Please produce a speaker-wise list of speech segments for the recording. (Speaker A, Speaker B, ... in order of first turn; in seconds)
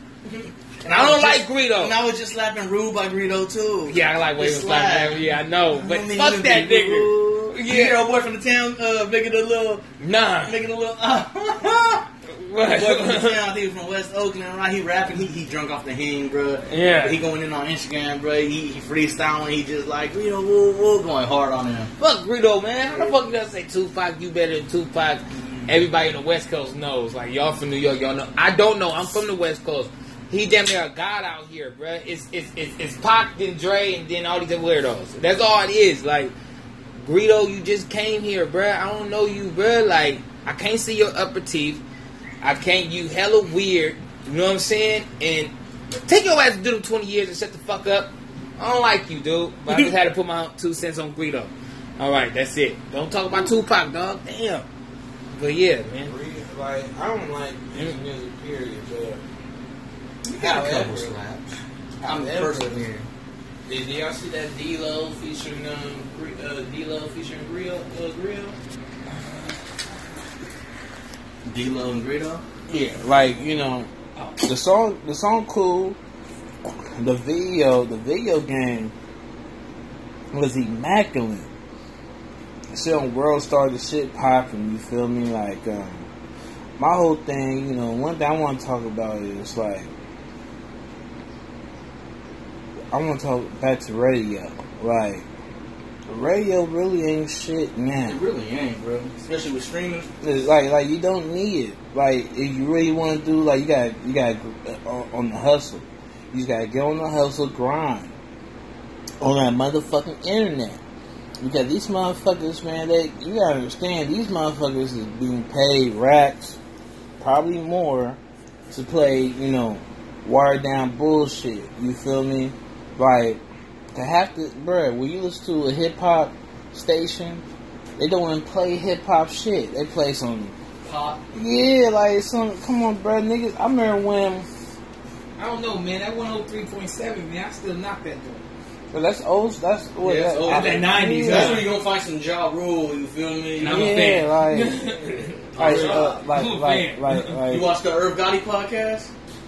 Speaker A: 0.2-9.8, 10.4-12.1, 12.6-21.9, 22.9-23.1, 25.4-25.8, 60.2-61.5, 62.0-63.1, 71.5-72.4, 98.0-100.1, 130.8-131.2, 140.0-144.0, 145.0-146.2, 147.4-149.1
Speaker B: 0.9-1.9, 3.9-8.0, 10.0-10.6, 12.3-13.4, 16.7-17.2, 22.0-36.3, 37.0-41.8, 42.4-45.5, 46.0-54.7, 55.3-56.1, 135.4-138.4, 140.5-141.6, 143.6-147.4
Speaker C: 56.1-59.2, 60.4-61.2, 62.0-62.9, 63.7-68.6, 72.7-73.9, 74.4-76.0, 77.0-78.9, 80.3-81.5, 82.7-86.1, 86.8-89.9, 92.9-95.2, 96.1-98.2, 100.2-108.1, 109.2-110.8, 111.4-116.6, 117.2-118.2, 118.7-123.4, 123.9-127.4, 128.0-130.6, 131.3-134.5, 138.9-141.7, 143.6-144.9, 145.5-147.7